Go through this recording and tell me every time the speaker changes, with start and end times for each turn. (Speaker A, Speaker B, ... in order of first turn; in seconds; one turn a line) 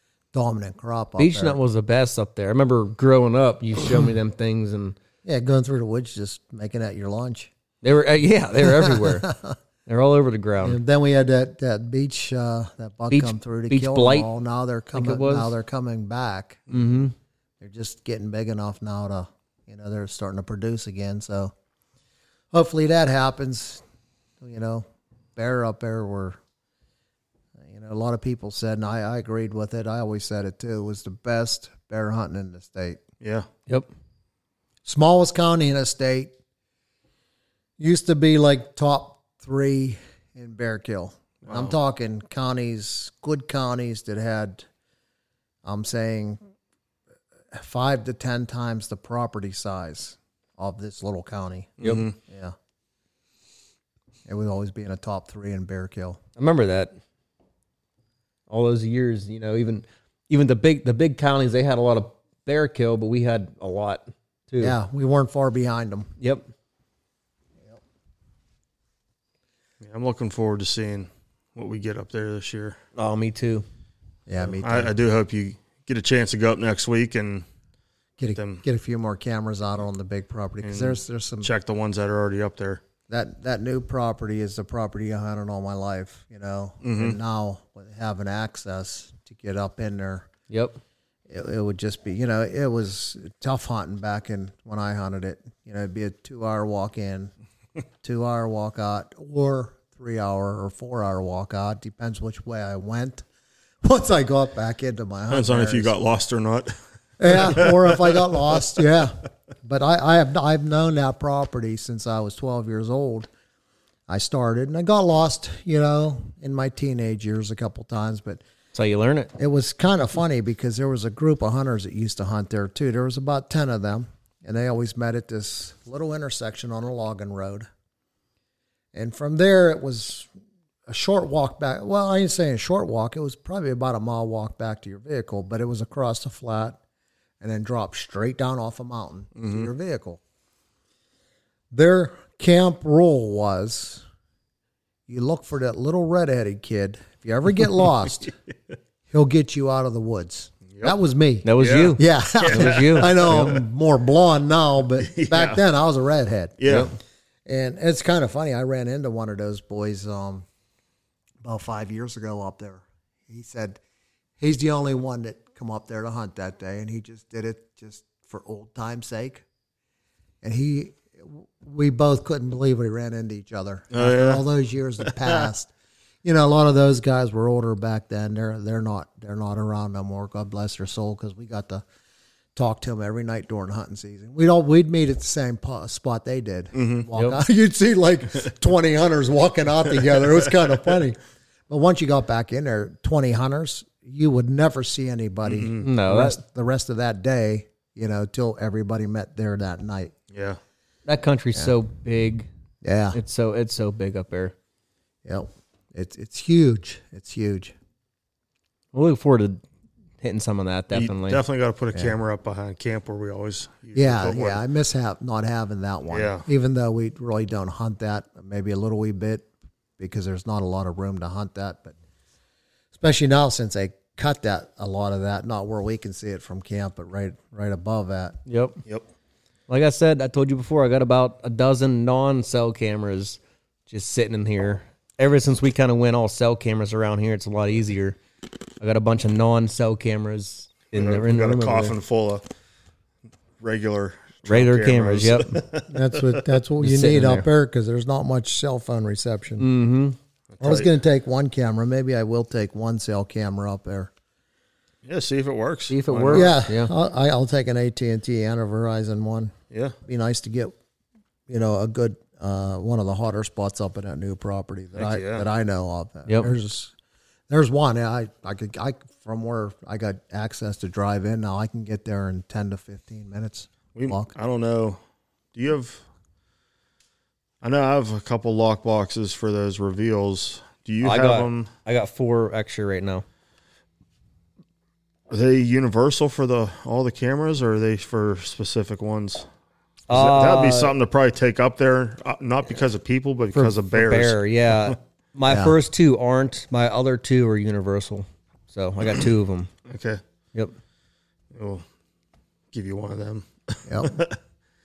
Speaker A: 0.3-1.6
Speaker B: 1.2-5.0
Speaker A: 5.2-7.5
Speaker B: 7.8-9.3
Speaker A: 8.6-9.6
Speaker B: 9.8-10.8
Speaker A: 10.6-16.6
Speaker B: 13.1-14.3
Speaker B: 14.9-15.5
Speaker B: 16.7-17.1
Speaker A: 17.6-21.5
Speaker A: 22.5-23.8
Speaker A: 24.4-26.4
Speaker A: 27.6-33.0
Speaker C: 33.2-33.5
Speaker A: 34.8-36.3
Speaker A: 37.8-44.6
Speaker C: 41.4-41.8
Speaker A: 45.6-46.4
Speaker A: 47.5-52.5
Speaker C: 51.8-52.1
Speaker A: 54.2-56.2
Speaker B: 56.4-56.9
Speaker B: 58.5-64.7
Speaker A: 64.6-66.1
Speaker B: 66.2-66.5
Speaker C: 69.8-72.8
Speaker B: 72.9-73.7
Speaker A: 74.3-74.9
Speaker C: 74.4-77.5
Speaker A: 78.2-81.5
Speaker C: 78.3-78.6
Speaker C: 80.6-82.8
Speaker A: 83.1-90.3
Speaker C: 86.8-87.2
Speaker B: 90.5-90.8
Speaker A: 91.3-97.3
Speaker A: 98.0-103.2
Speaker A: 103.8-105.9
Speaker C: 105.3-106.7
Speaker A: 107.2-113.3
Speaker C: 107.2-108.2
Speaker A: 114.1-118.4
Speaker B: 118.7-119.3
Speaker A: 119.4-127.7
Speaker A: 128.9-130.3
Speaker A: 130.9-136.8
Speaker A: 137.4-140.2
Speaker C: 139.4-139.7
Speaker A: 141.7-144.0
Speaker A: 145.1-148.3
Speaker A: 149.1-156.6
Speaker C: 150.7-150.9
Speaker B: 151.4-153.4
Speaker C: 151.6-153.6
Speaker C: 155.0-155.6
Speaker C: 156.6-156.9
Speaker B: 156.7-156.9
Speaker A: 157.4-160.4
Speaker A: 161.4-163.8
Speaker A: 164.4-169.4
Speaker A: 170.4-175.7
Speaker C: 173.9-174.4
Speaker C: 175.0-175.5
Speaker A: 176.2-181.8
Speaker A: 182.5-191.2
Speaker C: 186.7-187.1
Speaker A: 191.7-200.1
Speaker C: 195.4-195.8
Speaker B: 195.8-196.4
Speaker C: 200.3-200.6
Speaker B: 201.1-202.5
Speaker A: 202.8-203.2
Speaker B: 203.1-204.5
Speaker A: 205.2-207.7
Speaker B: 208.9-209.6
Speaker B: 210.2-211.4
Speaker C: 210.9-214.6
Speaker A: 213.9-219.5
Speaker C: 216.1-216.5
Speaker A: 220.0-221.9
Speaker A: 222.9-228.4
Speaker B: 228.5-228.8
Speaker B: 229.7-238.2
Speaker B: 238.8-241.9
Speaker C: 240.9-242.4
Speaker C: 243.6-246.4
Speaker B: 244.4-245.6
Speaker A: 245.8-249.7
Speaker B: 246.8-247.5
Speaker B: 249.6-250.2
Speaker C: 250.5-250.9
Speaker A: 250.6-254.1
Speaker C: 255.0-256.5
Speaker B: 255.9-256.9
Speaker A: 256.3-259.5
Speaker C: 259.7-259.9
Speaker A: 260.1-260.7
Speaker A: 261.5-266.9
Speaker C: 264.9-265.5
Speaker B: 266.3-266.5
Speaker A: 267.5-274.3
Speaker C: 273.9-275.0
Speaker C: 275.5-276.0
Speaker C: 277.6-281.7
Speaker B: 281.0-283.2
Speaker C: 285.3-289.5
Speaker B: 290.1-290.9
Speaker C: 290.1-294.9
Speaker B: 293.5-299.7
Speaker A: 295.5-295.7
Speaker C: 299.9-300.2
Speaker C: 301.5-301.8
Speaker C: 302.7-304.4
Speaker A: 303.9-304.2